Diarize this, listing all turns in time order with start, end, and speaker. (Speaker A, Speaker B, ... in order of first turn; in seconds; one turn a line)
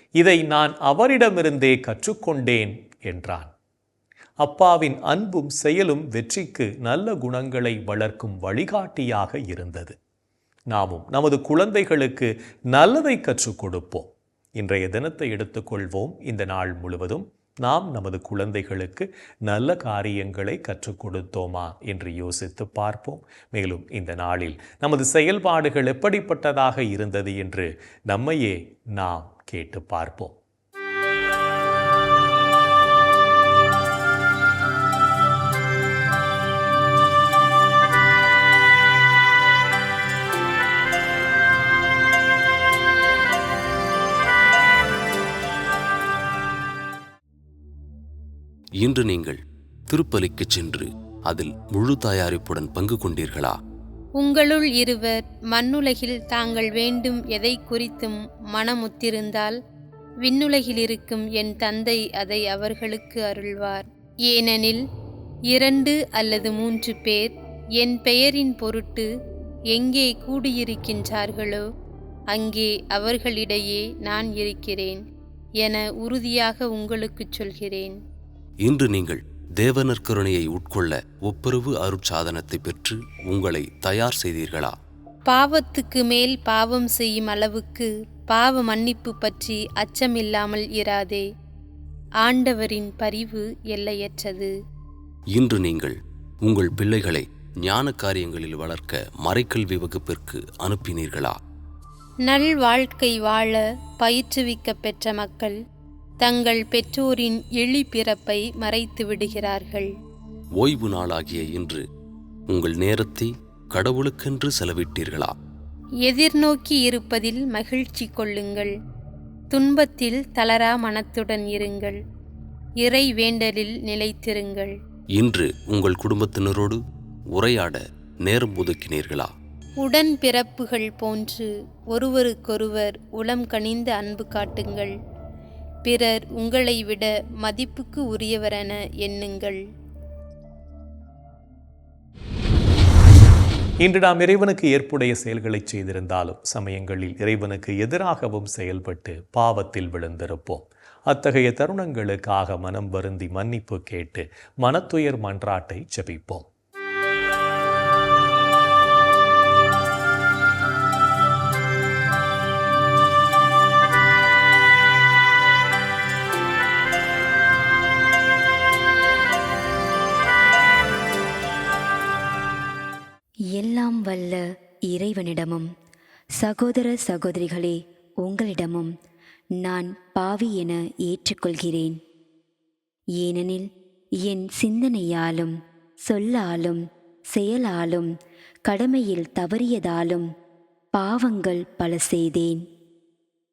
Speaker A: 0.2-3.5
Speaker A: 4.4-9.9
Speaker A: 10.7-30.4
Speaker B: 48.8-53.5
Speaker C: 54.2-59.5
Speaker C: 60.2-64.8
Speaker C: 65.5-67.2
Speaker C: 67.8-69.1
Speaker C: 69.7-71.6
Speaker C: 72.3-75.0
Speaker C: 75.6-77.9
Speaker B: 78.6-84.8
Speaker C: 85.3-91.2
Speaker C: 92.2-94.5
Speaker B: 95.3-101.4
Speaker C: 102.2-105.5
Speaker C: 106.2-109.9
Speaker B: 110.6-111.8
Speaker B: 112.5-115.3
Speaker C: 116.0-118.7
Speaker C: 119.5-122.0
Speaker C: 122.8-124.7
Speaker B: 125.2-126.8
Speaker B: 127.3-129.3
Speaker C: 129.8-134.9
Speaker C: 135.9-139.6
Speaker A: 143.8-156.5
Speaker D: 173.5-175.7
Speaker D: 176.4-178.9
Speaker D: 179.6-182.0
Speaker D: 183.2-183.7
Speaker D: 184.2-188.1
Speaker D: 188.7-190.3
Speaker D: 190.9-192.6